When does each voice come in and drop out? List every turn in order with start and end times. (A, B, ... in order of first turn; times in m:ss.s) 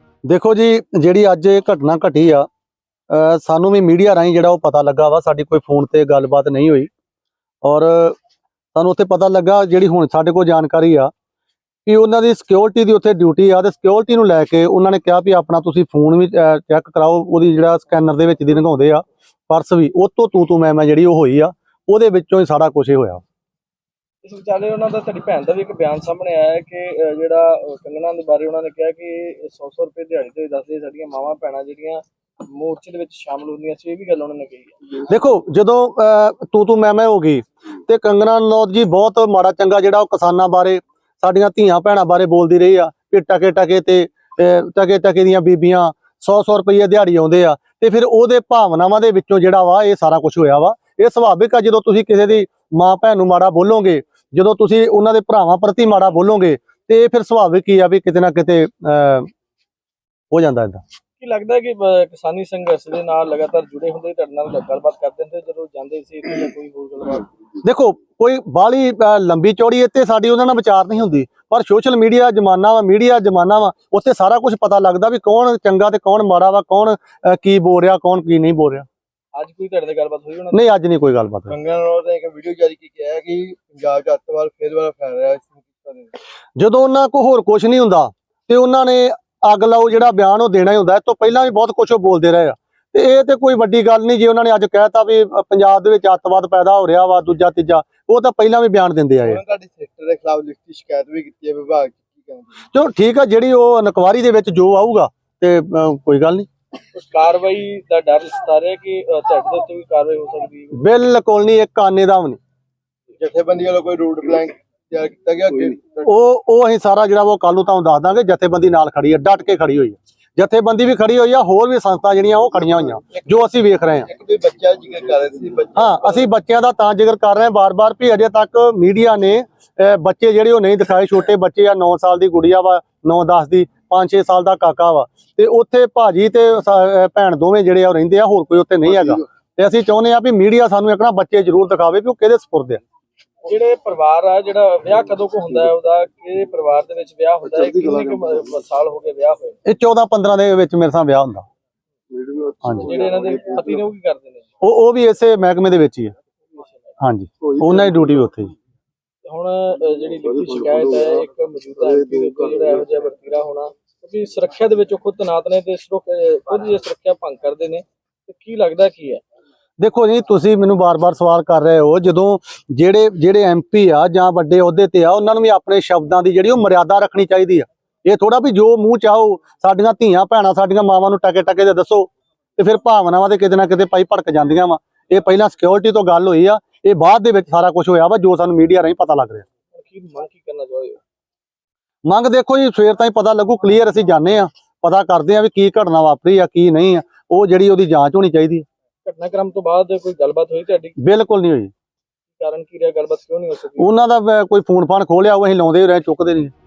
0:00.3-0:02.5 A
0:03.1-0:06.9 A
0:07.6-0:08.2 A
0:08.8-0:11.1 A
0:11.9-0:23.2 A
0:24.2-0:34.9 B
0:35.0-0:59.3 A
1:00.3-1:00.8 A
1:01.2-1:07.3 B
1:07.6-1:18.9 A
1:19.4-1:20.7 B
1:20.5-1:21.6 A
1:21.5-1:26.1 C
1:26.6-1:39.4 A
1:39.2-1:42.6 C
1:42.7-1:46.5 A
1:46.9-1:50.8 B
1:50.7-1:52.4 A
1:53.2-1:56.1 C
1:56.1-2:04.1 A
2:03.9-2:06.3 C
2:05.8-2:22.8 A
2:23.4-2:29.6 B
2:29.7-2:31.5 A
2:32.1-2:34.5 B
2:32.6-2:33.0 A
2:34.6-2:36.1 A
2:36.5-2:36.9 B
2:37.0-2:38.5 A
2:37.5-2:38.0 B
2:39.2-2:49.2 B
2:49.8-3:09.4 A
3:09.7-3:11.0 B
3:12.1-3:18.7 A
3:19.0-3:21.0 B
3:21.0-3:21.7 A
3:22.4-3:23.9 B
3:23.8-3:26.5 A